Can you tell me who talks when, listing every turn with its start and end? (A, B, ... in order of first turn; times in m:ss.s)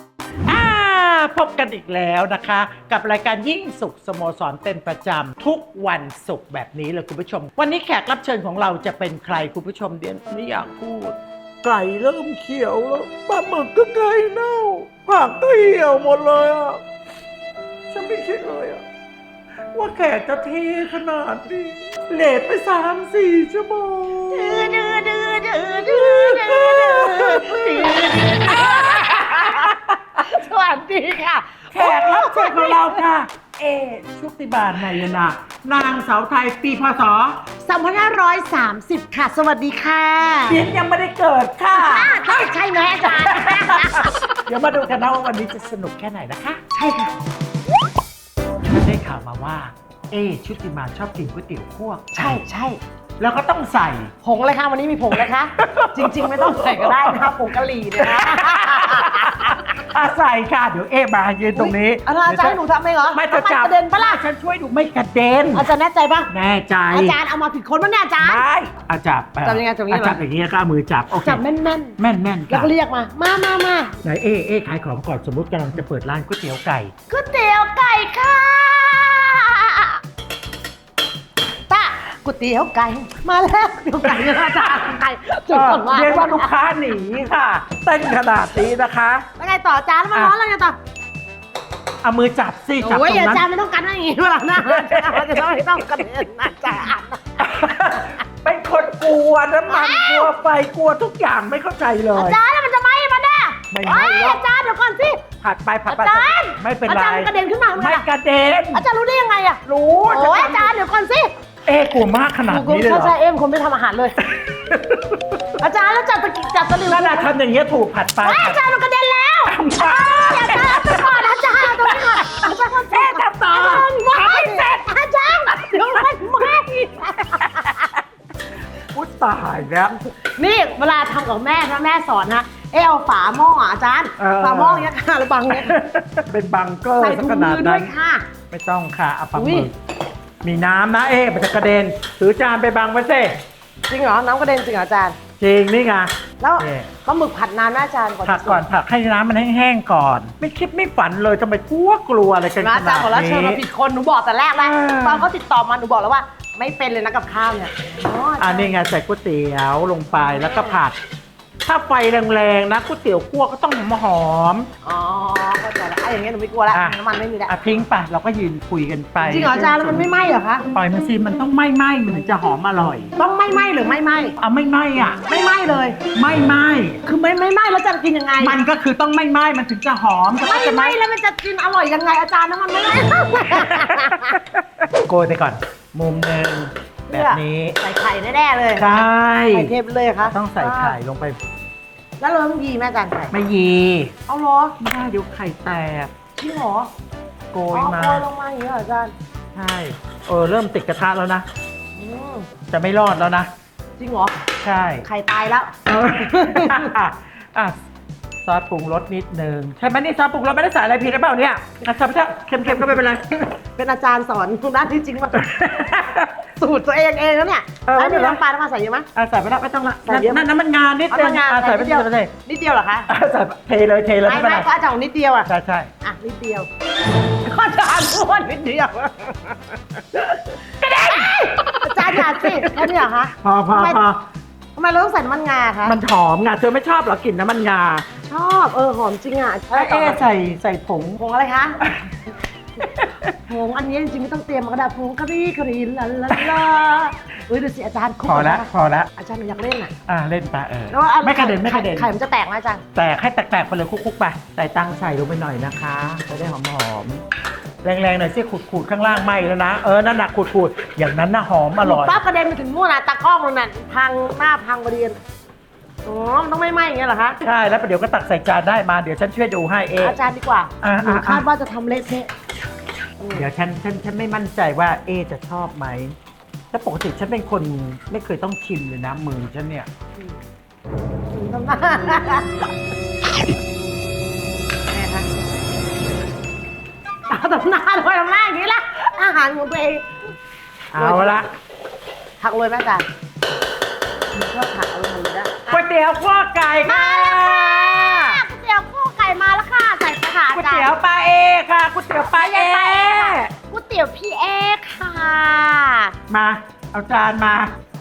0:00.5-0:16.8 A
0:17.9-0:18.8 A
0:19.7-0:24.9 A
0:24.3-0:33.1 B
0:25.7-0:29.8 A
0:31.7-0:37.5 A
0:37.6-0:40.6 B
0:40.5-0:46.6 A
0:41.7-0:44.2 B
0:46.7-0:47.1 B
0:48.6-0:52.4 A
0:52.2-0:52.8 B
0:53.2-0:54.1 A
0:54.2-0:59.7 B
0:55.1-1:02.6 A
1:01.5-1:04.2 B
1:03.1-1:05.7 A
1:05.5-1:06.3 B
1:06.3-1:07.2 A
1:06.9-1:08.4 B
1:08.2-1:11.4 A
1:09.4-1:10.2 B
1:11.2-1:12.0 B
1:12.0-1:12.7 A
1:12.5-1:14.0 B
1:14.0-1:16.9 A
1:17.1-1:20.0 B
1:21.7-1:26.5 B
1:24.0-1:25.0 A
1:25.5-1:29.3 A
1:29.4-1:30.8 B
1:32.0-1:33.4 A
1:32.8-1:37.5 B
1:34.6-1:35.6 A
1:37.4-1:42.4 A
1:39.7-1:40.3 B
1:42.1-1:45.2 B
1:43.7-1:44.4 A
1:45.4-1:48.9 A
1:45.9-1:48.1 B
1:48.7-1:51.3 B
1:49.6-1:50.7 A
1:51.7-1:53.2 A
1:52.5-1:54.2 B
1:54.2-1:55.4 A
1:55.6-1:57.3 B
1:56.8-1:58.7 A
1:58.2-2:07.9 B
1:59.5-2:04.9 A
2:05.5-2:06.6 A
2:07.4-2:07.9 A
2:08.8-2:10.0 A
2:10.2-2:15.8 B
2:14.2-2:14.9 A
2:15.5-2:17.9 A
2:17.0-2:18.3 B
2:18.5-2:19.8 A
2:19.4-2:19.7 B
2:20.4-2:23.4 A
2:23.9-2:25.2 B
2:25.4-2:26.9 A
2:26.4-2:28.6 B
2:28.2-2:33.6 A
2:32.6-2:38.8 B
2:34.6-2:35.3 A
2:38.4-2:41.0 A
2:40.2-2:40.8 B
2:41.6-2:44.7 A
2:44.8-2:47.8 B
2:46.7-2:50.2 A
2:49.2-2:50.7 B
2:50.7-2:53.1 A
2:53.2-2:54.4 B
2:54.4-2:55.2 A
2:55.1-2:56.0 B
2:56.0-2:57.0 A
2:57.0-2:58.6 B
2:58.4-3:01.0 A
3:00.4-3:04.4 B
3:03.4-3:07.8 A
3:07.1-3:11.0 B
3:08.8-3:11.4 A
3:12.2-3:13.4 B
3:13.3-3:14.1 A
3:14.3-3:14.8 B
3:14.8-3:16.1 A
3:16.4-3:16.9 B
3:17.5-3:18.3 A
3:17.7-3:19.1 B
3:19.6-3:21.5 A
3:22.0-3:22.5 B
3:22.7-3:23.5 A
3:24.0-3:24.4 B
3:24.6-3:25.1 A
3:25.0-3:26.9 B
3:25.9-3:27.8 A
3:28.4-3:33.5 A
3:32.6-3:33.0 B
3:33.8-3:39.1 B
3:35.3-3:36.3 A
3:37.8-3:38.4 A
3:39.2-3:42.3 A
3:40.0-3:40.4 B
3:41.1-3:43.1 B
3:43.1-3:44.7 A
3:44.2-3:45.5 B
3:45.5-3:45.9 A
3:46.0-3:46.7 B
3:47.4-3:50.0 B
3:50.8-3:54.3 A
3:51.1-3:54.0 B
3:54.8-3:56.0 B
3:55.8-3:58.1 A
3:58.2-4:00.3 B
3:59.7-4:01.2 A
4:01.2-4:01.8 B
4:01.8-4:02.1 A
4:02.8-4:03.3 A
4:03.5-4:09.9 B
4:06.3-4:06.7 A
4:08.3-4:09.1 A
4:10.1-4:12.1 A
4:10.9-4:12.8 B
4:13.0-4:17.2 A
4:17.8-4:22.2 A
4:21.8-4:25.2 B
4:26.0-4:27.4 B
4:27.4-4:30.2 A
4:30.0-4:32.3 B
4:30.8-4:31.5 A
4:33.3-4:36.2 A
4:36.7-4:39.9 A
4:41.3-4:42.7 B
4:44.9-4:45.3 B
4:47.3-4:50.1 B
4:50.9-4:51.5 A
4:51.0-4:51.4 B
4:52.4-4:53.1 B
4:54.3-4:55.8 B
4:55.7-4:58.4 A
4:56.8-5:00.9 B
5:00.5-5:03.5 A
5:02.2-5:06.2 B
5:06.3-5:07.7 A